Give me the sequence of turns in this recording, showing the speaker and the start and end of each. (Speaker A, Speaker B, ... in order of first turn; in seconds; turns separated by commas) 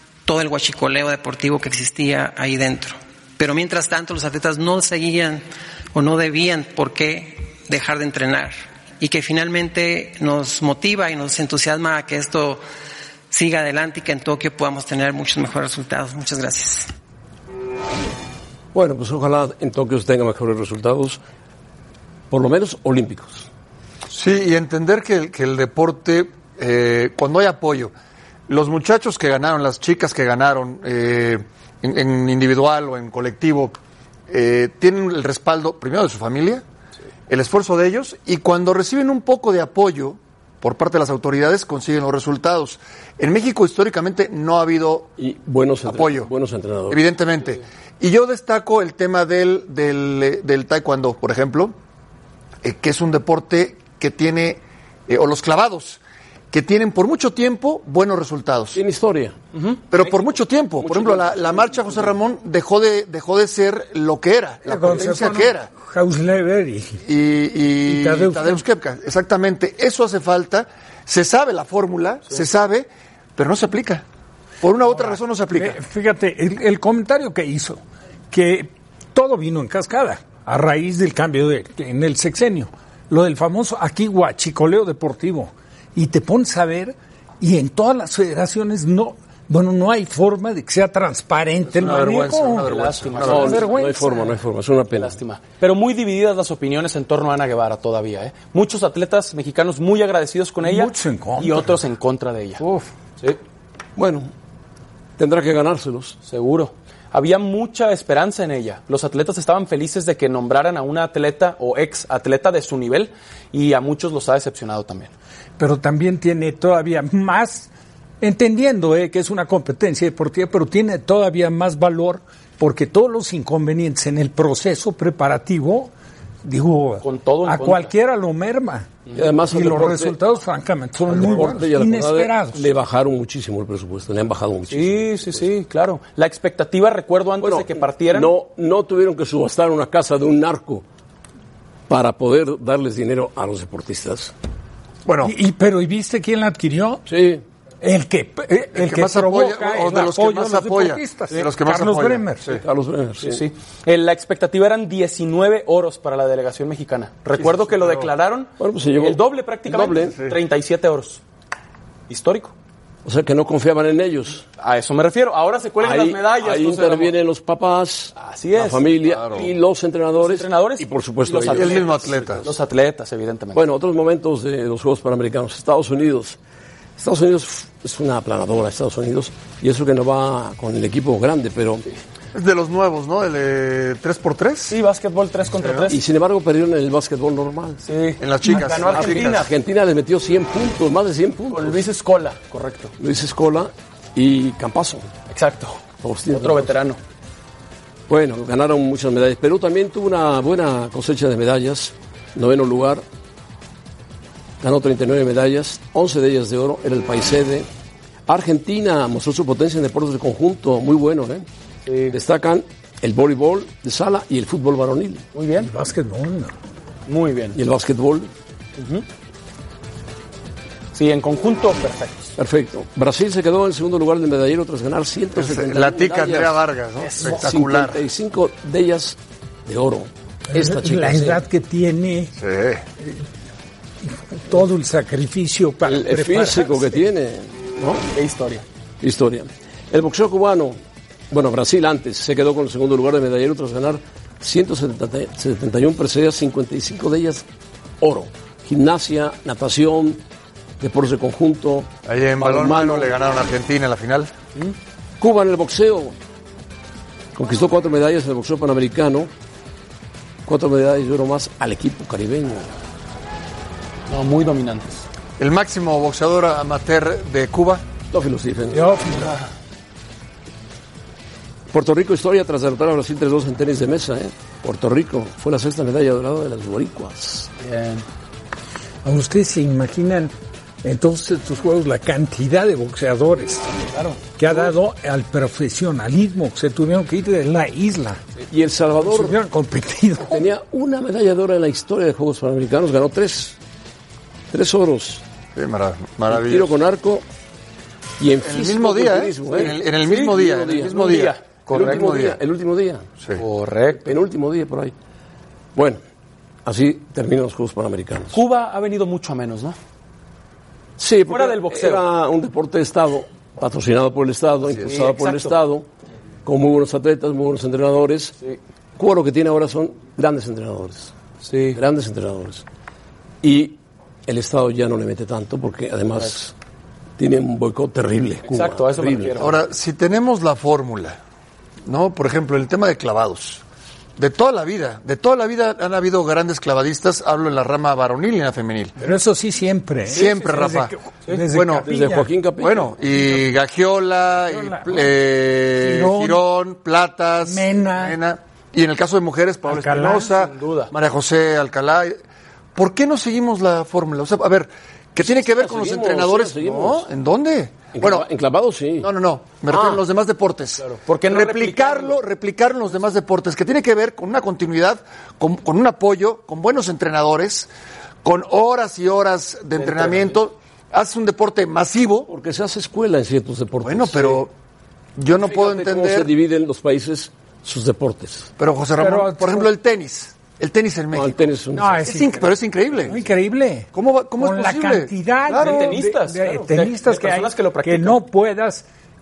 Speaker A: 0.2-12.6, Speaker A: 13.3-16.9, Speaker B: 18.7-21.2, Speaker B: 22.3-23.5, Speaker C: 24.1-27.9, Speaker C: 28.5-33.7, Speaker C: 34.3-36.6, Speaker C: 37.3-45.1, Speaker B: 45.2-47.0, Speaker C: 45.9-46.3, Speaker C: 46.9-51.7, Speaker C: 52.6-56.0, Speaker C: 56.5-58.8, Speaker B: 58.7-59.4, Speaker D: 59.5-59.8, Speaker C: 59.9-65.7, Speaker B: 60.8-62.1, Speaker E: 64.7-67.0, Speaker C: 67.0-74.0, Speaker E: 67.9-68.6, Speaker C: 74.6-75.8, Speaker E: 75.5-92.7, Speaker C: 91.7-93.7, Speaker D: 92.6-93.8, Speaker B: 93.2-95.2, Speaker E: 93.2-94.2, Speaker D: 94.9-102.6, Speaker E: 100.6-101.8, Speaker E: 102.6-102.9, Speaker B: 104.0-104.3, Speaker B: 105.2-106.2, Speaker D: 106.2-115.1, Speaker E: 115.6-117.7, Speaker E: 118.2-125.9, Speaker E: 126.4-132.7, Speaker D: 127.0-127.9, Speaker B: 129.1-130.2, Speaker B: 131.0-135.4, Speaker D: 134.7-138.3, Speaker B: 137.4-140.8, Speaker B: 141.9-144.3, Speaker C: 145.1-145.3, Speaker E: 145.2-147.0, Speaker B: 147.1-147.4, Speaker E: 147.8-152.4, Speaker C: 148.7-152.6, Speaker B: 152.4-153.4, Speaker D: 153.2-161.2, Speaker B: 158.6-160.2, Speaker D: 162.1-162.5, Speaker B: 163.0-164.4, Speaker D: 164.6-167.1, Speaker B: 165.8-172.1, Speaker D: 168.2-168.8, Speaker C: 169.1-169.5, Speaker D: 170.1-173.6, Speaker C: 171.5-172.4, Speaker B: 173.5-176.4, Speaker B: 177.0-181.8, Speaker C: 182.3-184.8, Speaker D: 184.7-186.0, Speaker B: 185.9-187.8, Speaker D: 187.8-189.5, Speaker C: 188.2-189.5, Speaker B: 188.8-191.8, Speaker D: 191.5-192.9, Speaker B: 193.0-195.1, Speaker D: 195.3-197.0, Speaker B: 196.0-196.8, Speaker B: 198.1-203.0, Speaker B: 204.6-207.7, Speaker B: 208.3-211.4, Speaker D: 211.8-212.2, Speaker B: 212.1-215.2, Speaker D: 215.3-215.7, Speaker E: 215.6-216.5, Speaker D: 217.1-217.6, Speaker B: 217.5-218.3, Speaker D: 218.8-219.0, Speaker D: 220.9-222.3, Speaker B: 222.4-226.6, Speaker C: 225.3-228.0, Speaker D: 227.0-227.4, Speaker B: 227.2-231.4, Speaker E: 230.5-232.3, Speaker C: 232.4-232.8, Speaker E: 234.1-237.0, Speaker B: 235.8-238.1, Speaker D: 238.1-238.6, Speaker B: 239.0-240.8, Speaker B: 241.3-247.4, Speaker B: 248.0-250.2, Speaker B: 250.8-253.1, Speaker C: 252.1-254.3, Speaker B: 255.2-256.1, Speaker B: 257.3-259.3, Speaker B: 260.4-262.7, Speaker D: 264.1-265.0, Speaker C: 265.4-267.8, Speaker B: 268.1-269.0, Speaker E: 268.7-269.3, Speaker B: 271.7-277.5, Speaker D: 277.6-278.0, Speaker E: 279.0-280.3, Speaker E: 280.8-283.7, Speaker D: 283.9-284.2, Speaker E: 284.4-288.2, Speaker B: 288.5-289.4, Speaker E: 289.0-290.5, Speaker B: 290.2-293.6, Speaker B: 294.5-295.2, Speaker C: 295.5-296.7, Speaker B: 296.3-297.2, Speaker B: 298.2-301.2, Speaker C: 298.4-302.4, Speaker D: 299.5-302.2, Speaker B: 301.7-303.1, Speaker D: 303.4-304.1, Speaker B: 303.9-304.9, Speaker B: 305.7-306.0, Speaker B: 306.6-308.4, Speaker D: 308.3-309.8, Speaker B: 311.0-315.9, Speaker D: 311.3-312.0, Speaker D: 314.8-315.5, Speaker B: 316.4-318.3, Speaker B: 319.0-321.1, Speaker D: 321.4-321.8, Speaker B: 321.7-322.6, Speaker B: 323.4-326.5, Speaker B: 327.2-329.5, Speaker D: 328.4-329.6, Speaker C: 329.4-331.2, Speaker C: 331.8-333.6, Speaker C: 334.2-338.9, Speaker E: 339.0-342.3, Speaker C: 340.1-340.9, Speaker D: 340.1-340.4, Speaker C: 341.5-341.9, Speaker B: 341.8-343.0, Speaker C: 342.6-352.2, Speaker E: 344.5-345.1, Speaker E: 345.8-346.4, Speaker E: 347.4-348.2, Speaker E: 349.7-350.3, Speaker D: 350.2-350.9, Speaker C: 352.7-358.3, Speaker B: 355.2-357.1, Speaker B: 357.9-359.1, Speaker C: 359.0-367.7, Speaker B: 359.7-360.0, Speaker D: 360.8-362.2, Speaker C: 368.2-372.3, Speaker D: 369.8-370.4, Speaker B: 372.3-374.4, Speaker C: 373.8-374.5, Speaker C: 375.1-376.3, Speaker B: 375.4-378.5, Speaker C: 378.6-381.5, Speaker E: 379.0-379.7, Speaker B: 381.1-382.1, Speaker E: 381.8-382.4, Speaker C: 382.0-383.2, Speaker E: 383.0-388.8, Speaker C: 383.9-386.0, Speaker D: 385.5-388.2